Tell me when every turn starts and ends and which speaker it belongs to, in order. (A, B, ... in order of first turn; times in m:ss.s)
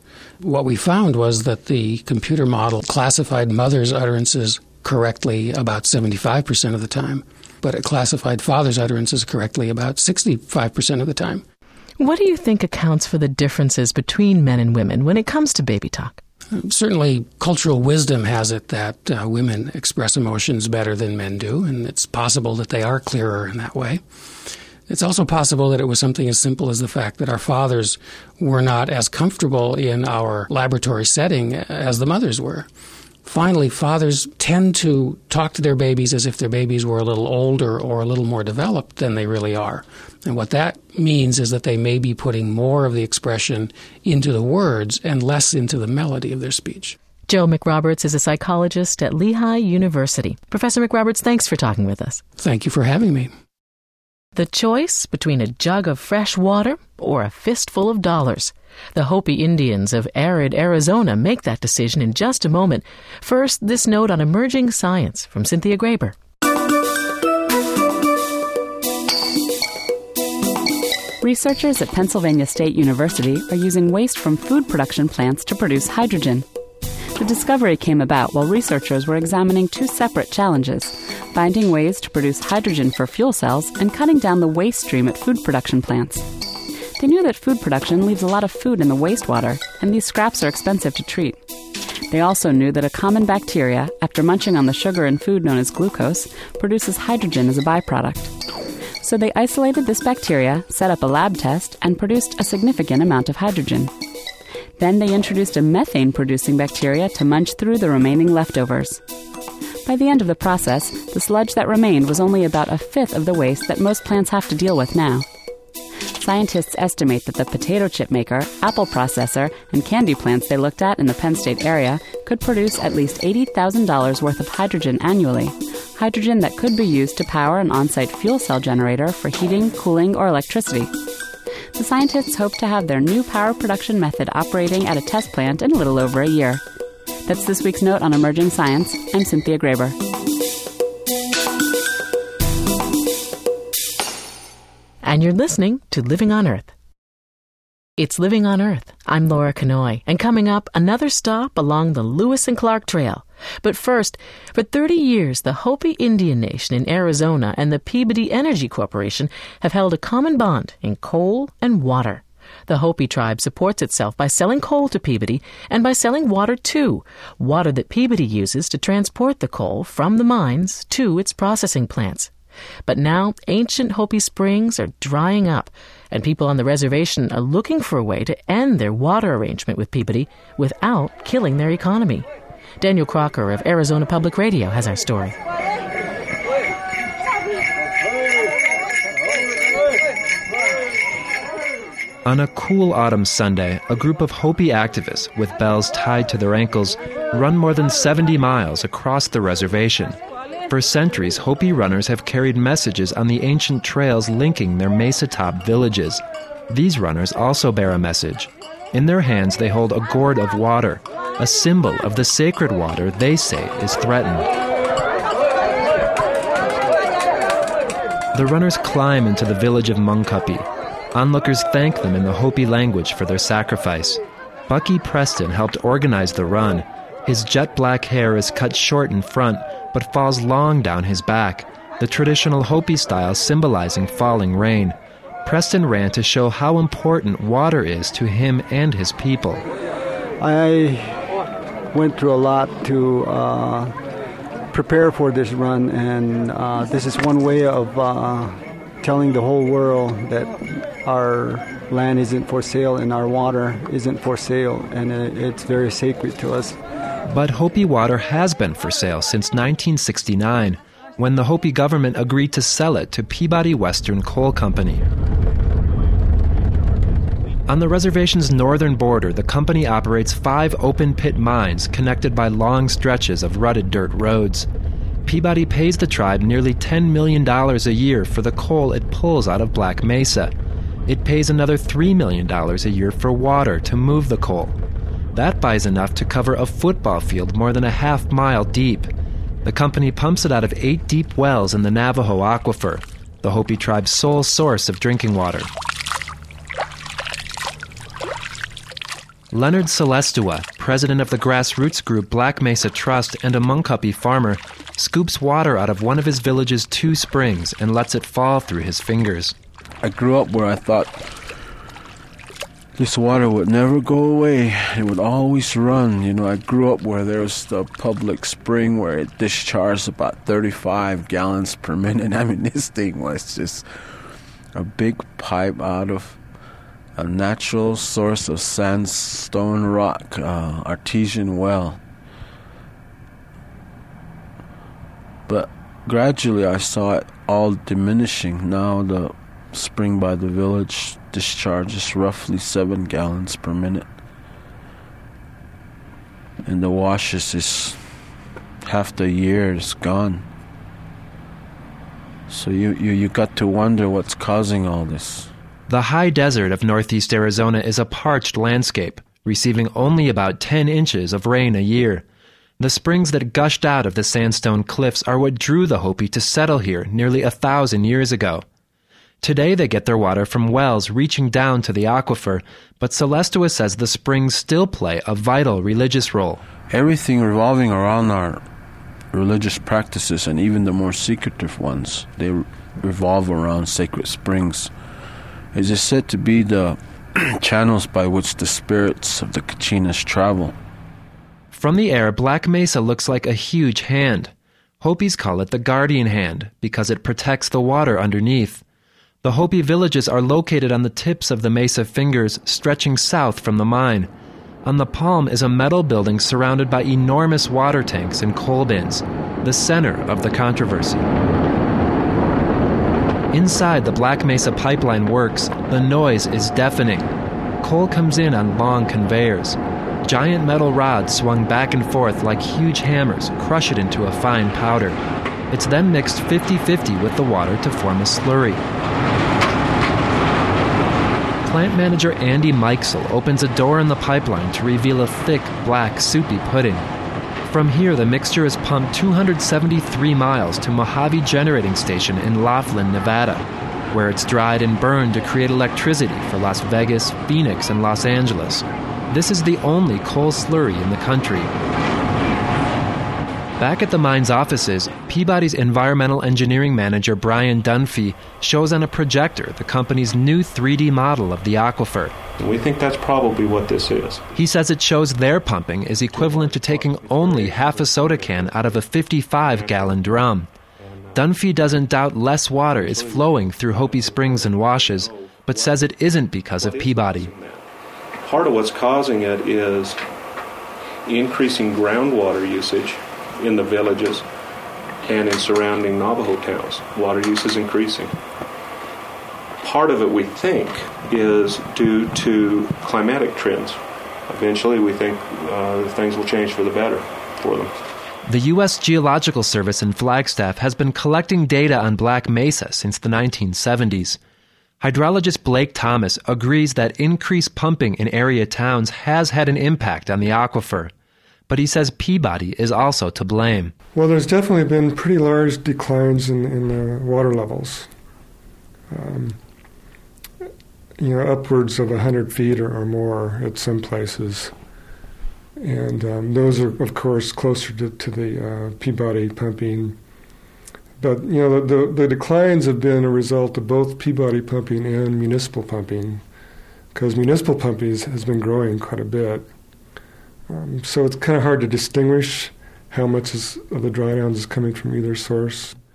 0:00.4-0:11.4 A
0:12.0-0:16.2 B
0:16.6-0:24.0 A
0:24.9-0:32.7 A
0:33.2-0:47.0 A
0:47.3-0:52.2 B
0:52.4-0:53.3 A
0:54.4-1:06.2 B
1:11.2-1:16.5 C
1:17.2-1:26.3 C
1:27.0-1:31.4 C
1:32.1-1:38.3 C
1:39.0-1:43.9 C
1:44.8-1:49.0 C
1:49.9-1:55.3 C
1:56.2-2:10.9 C
2:11.8-2:16.6 C
2:17.3-2:20.0 C
2:25.0-2:26.7 B
2:28.0-2:52.3 B
2:52.9-3:02.3 B
3:02.8-3:05.4 B
3:12.2-3:20.2 D
3:20.7-3:34.5 D
3:38.3-3:59.6 D
4:00.4-4:01.3 E
4:01.9-4:04.0 E
4:04.7-4:16.8 E
4:17.3-4:25.0 D
4:27.7-4:34.7 D
4:35.2-4:40.5 D
4:41.1-4:44.8 D
4:45.3-4:49.1 D
4:49.6-4:55.7 D
4:59.5-5:09.6 D
5:10.0-5:11.3 F
5:13.0-5:23.9 F
5:24.7-5:26.4 F
5:27.2-5:32.0 F
5:35.5-5:44.1 F
5:46.6-5:48.0 F
5:48.8-5:50.4 F
5:52.5-5:55.5 F
5:55.9-6:02.2 D
6:02.8-6:08.6 D
6:09.4-6:16.6 D
6:16.9-6:18.6 F
6:19.3-6:24.9 F
6:25.7-6:30.7 F
6:31.7-6:38.8 D
6:39.4-6:44.3 D
6:44.8-6:51.3 D
6:53.5-7:05.2 D
7:05.7-7:08.8 D
7:11.6-7:17.1 D
7:17.7-7:31.7 D
7:33.8-7:42.4 D
7:42.5-7:44.6 G
7:44.6-7:50.7 D
7:46.2-7:50.4 G
7:51.0-7:51.9 G
7:51.3-7:57.5 D
7:53.0-7:57.9 G
7:58.4-8:00.2 G
8:01.3-8:04.5 G
8:05.2-8:08.4 G
8:09.8-8:17.9 G
8:18.5-8:24.4 D
8:25.0-8:31.1 D
8:31.7-8:33.9 D
8:34.1-8:38.1 H
8:39.1-8:39.6 H
8:41.2-8:44.8 H
8:45.8-8:50.2 H
8:51.2-8:56.4 H
8:57.1-8:59.7 H
9:00.7-9:06.0 H